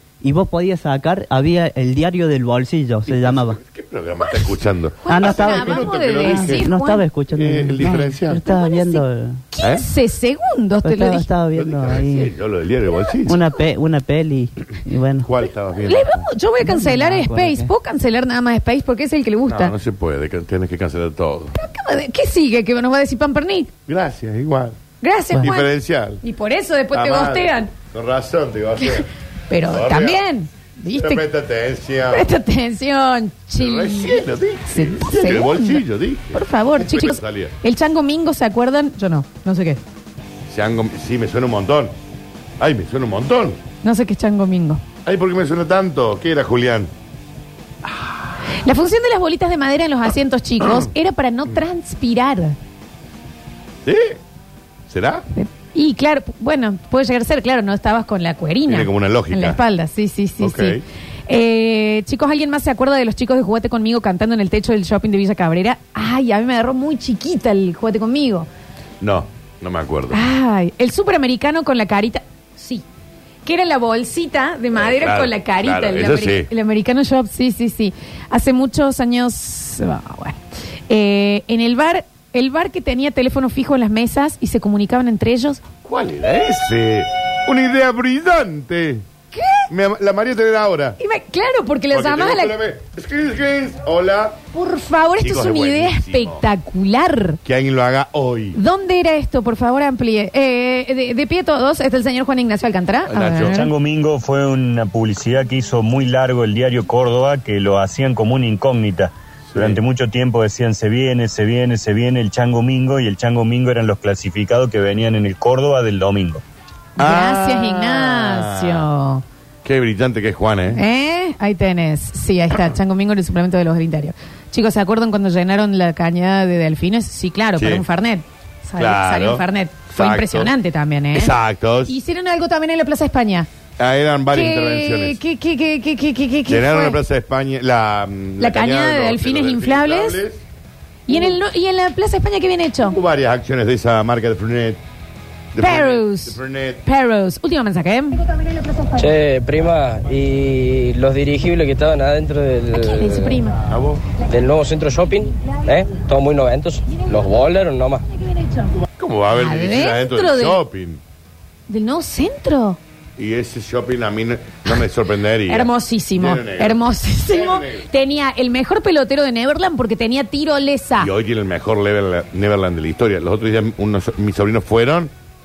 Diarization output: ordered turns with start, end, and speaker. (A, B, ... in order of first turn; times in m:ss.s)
0:00.2-0:03.6 A
0:03.1-0:06.7 B
0:04.2-0:07.0 C
0:05.1-0:09.4 A
0:07.3-0:08.4 B
0:08.4-0:11.3 C
0:10.8-0:12.3 A
0:11.5-0:13.4 B
0:13.2-0:15.3 A
0:15.2-0:16.3 B
0:15.9-0:19.7 C
0:16.6-0:17.7 A
0:19.5-0:21.6 B
0:21.6-0:23.7 C
0:23.9-0:24.8 B
0:25.0-0:25.7 C
0:25.3-0:26.2 B
0:26.2-0:27.7 C
0:26.9-0:29.1 B
0:29.5-0:31.2 C
0:29.7-0:30.2 B
0:30.9-0:32.3 B
0:32.1-0:39.8 C
0:33.6-0:37.5 B
0:40.5-0:41.9 B
0:42.6-0:43.6 B
0:43.8-0:44.8 C
0:45.0-0:46.9 B
0:48.6-0:52.6 C
0:53.8-0:54.2 B
0:54.9-0:55.2 B
0:55.3-1:08.5 C
0:58.7-0:59.6 B
1:00.4-1:00.8 B
1:09.0-1:10.2 B
1:10.1-1:12.8 C
1:13.4-1:25.6 C
1:14.8-1:16.5 B
1:25.8-1:29.0 B
1:29.3-1:29.7 C
1:29.7-1:31.0 B
1:31.0-1:32.6 C
1:31.9-1:34.4 B
1:34.5-1:37.4 C
1:35.2-1:36.4 B
1:37.4-1:38.6 B
1:38.6-1:43.7 C
1:43.1-1:43.6 B
1:43.4-1:56.4 D
1:49.5-1:49.8 B
1:57.0-1:59.2 C
1:57.0-1:58.9 B
1:59.6-2:00.8 B
2:00.7-2:11.3 C
2:07.6-2:07.8 B
2:08.8-2:10.5 B
2:11.1-2:11.9 B
2:11.8-2:13.5 C
2:13.8-2:15.2 B
2:14.3-2:17.0 C
2:16.4-2:20.4 B
2:18.4-2:20.2 C
2:21.1-2:23.0 C
2:22.8-2:24.8 B
2:25.5-2:26.8 B
2:25.6-2:28.2 C
2:29.0-2:33.1 E
2:32.7-2:33.6 C
2:33.7-2:34.0 B
2:34.3-2:38.0 E
2:39.0-2:41.0 B
2:39.3-2:40.6 C
2:41.7-2:42.8 C
2:43.2-2:47.8 B
2:45.5-2:51.1 C
2:51.0-2:55.1 B